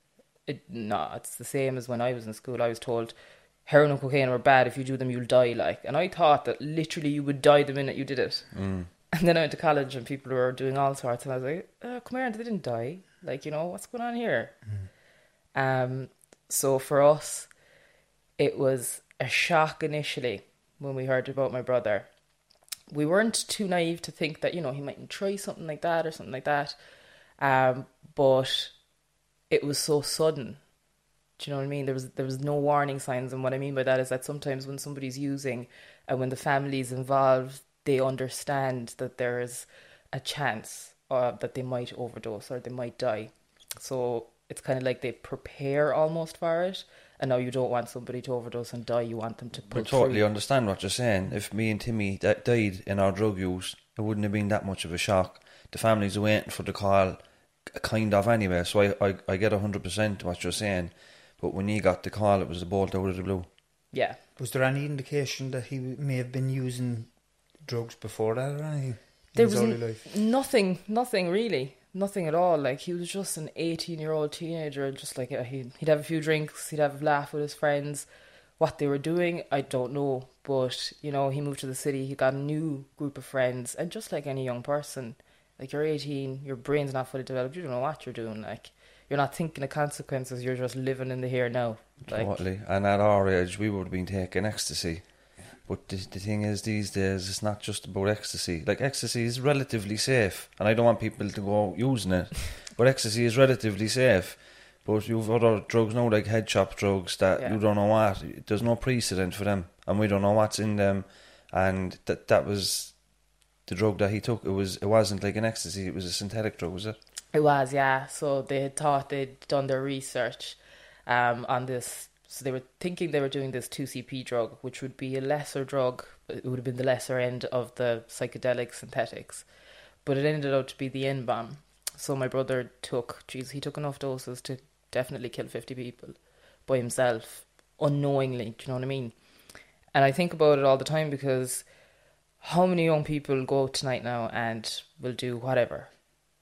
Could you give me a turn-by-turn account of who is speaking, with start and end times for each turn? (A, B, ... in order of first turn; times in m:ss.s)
0:00.4-0:14.6 A
0:08.5-0:08.9 B
0:15.5-0:17.5 A
0:18.4-0:22.1 A
0:22.9-0:26.8 A
0:27.4-0:28.8 A
0:29.5-0:30.6 A
0:31.4-0:50.2 A
0:49.7-1:03.5 B
1:03.9-1:04.2 A
1:04.4-1:10.0 C
1:09.3-1:18.1 A
1:18.6-1:32.4 A
1:32.0-1:57.0 B
1:57.3-2:09.5 A
2:10.0-2:19.2 A
2:19.9-2:21.7 A
2:22.4-2:26.2 A